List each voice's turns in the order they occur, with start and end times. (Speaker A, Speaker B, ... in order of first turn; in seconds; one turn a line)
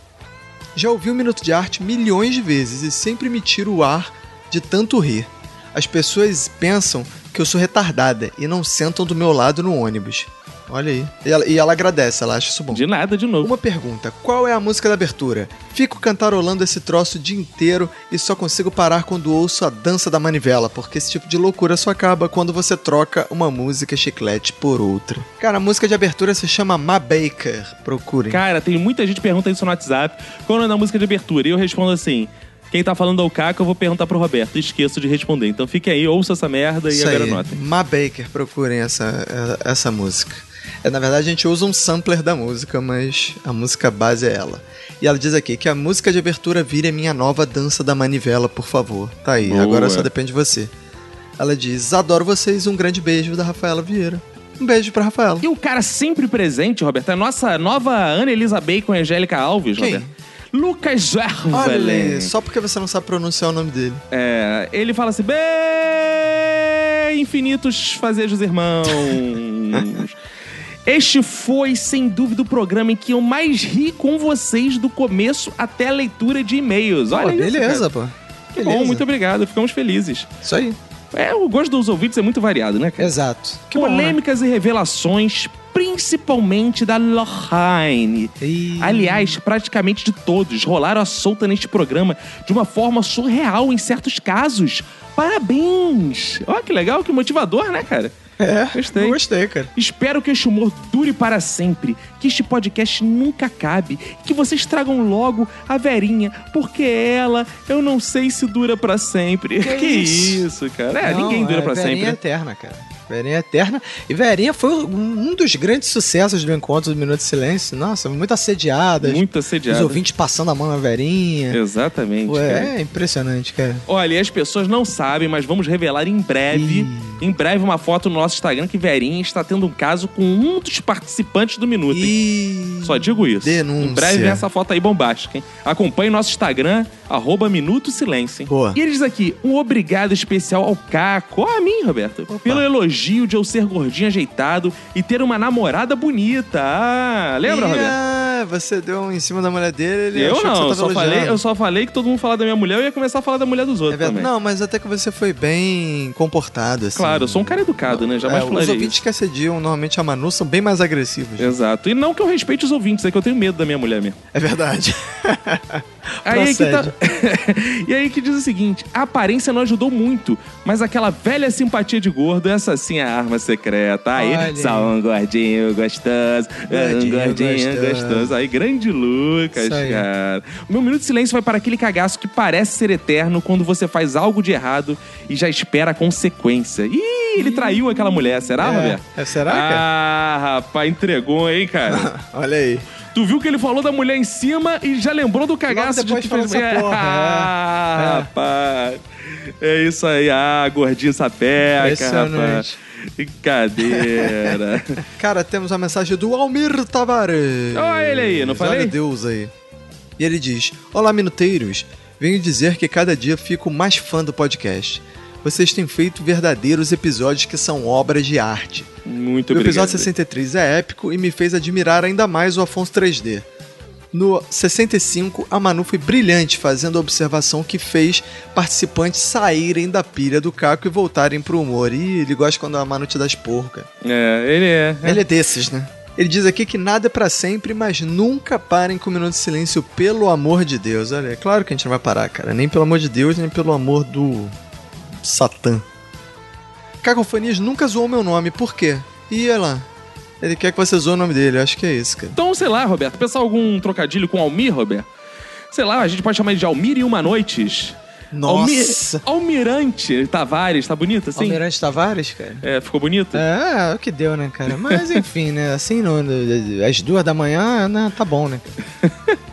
Speaker A: 0.8-12.8
Speaker B: 12.7-13.5
Speaker A: 13.4-28.4
Speaker B: 28.3-37.6
Speaker A: 36.9-50.7
Speaker B: 49.4-50.1
Speaker A: 51.4-55.5
Speaker B: 55.4-62.3
Speaker A: 59.8-60.1
Speaker A: 61.5-64.0
Speaker B: 64.1-70.2
Speaker B: 70.9-77.8
Speaker A: 77.1-79.0
Speaker B: 78.6-80.3
Speaker A: 80.4-80.8
Speaker B: 81.1-83.1
Speaker A: 83.0-84.2
Speaker B: 83.7-98.1
Speaker A: 88.4-89.4
Speaker A: 98.4-99.7
Speaker B: 98.7-99.2
Speaker B: 99.8-112.2
Speaker A: 109.6-110.5
Speaker A: 111.0-121.6
Speaker B: 119.0-120.0
Speaker B: 121.5-122.7
Speaker A: 122.3-123.8
Speaker B: 123.9-132.2
Speaker A: 126.5-127.2
Speaker A: 131.9-134.5
Speaker B: 132.8-148.0
Speaker A: 138.5-138.8
Speaker A: 142.3-142.6
Speaker A: 147.4-151.4
Speaker B: 150.2-154.3
Speaker A: 153.9-161.6
Speaker B: 156.9-159.0
Speaker B: 161.4-164.2
Speaker A: 164.3-166.9
Speaker B: 166.3-192.1
Speaker A: 174.2-174.9
Speaker A: 176.7-178.3
Speaker A: 179.6-180.1
Speaker A: 187.4-189.8
Speaker A: 191.9-192.9
Speaker B: 193.1-205.0
Speaker A: 195.7-198.3
Speaker A: 201.8-202.8
Speaker A: 203.9-204.6
Speaker A: 205.2-209.5
Speaker B: 207.7-208.9
Speaker A: 210.2-218.9
Speaker B: 219.1-220.1
Speaker A: 219.5-223.5
Speaker A: 224.1-233.9
Speaker B: 234.0-235.2
Speaker A: 235.0-244.6
Speaker A: 245.2-245.8
Speaker A: 247.0-249.9
Speaker A: 250.4-252.4
Speaker B: 252.4-255.1
Speaker B: 255.7-261.6
Speaker A: 258.3-259.2
Speaker A: 261.4-262.6
Speaker B: 262.6-263.4
Speaker A: 263.3-268.8
Speaker B: 264.9-265.2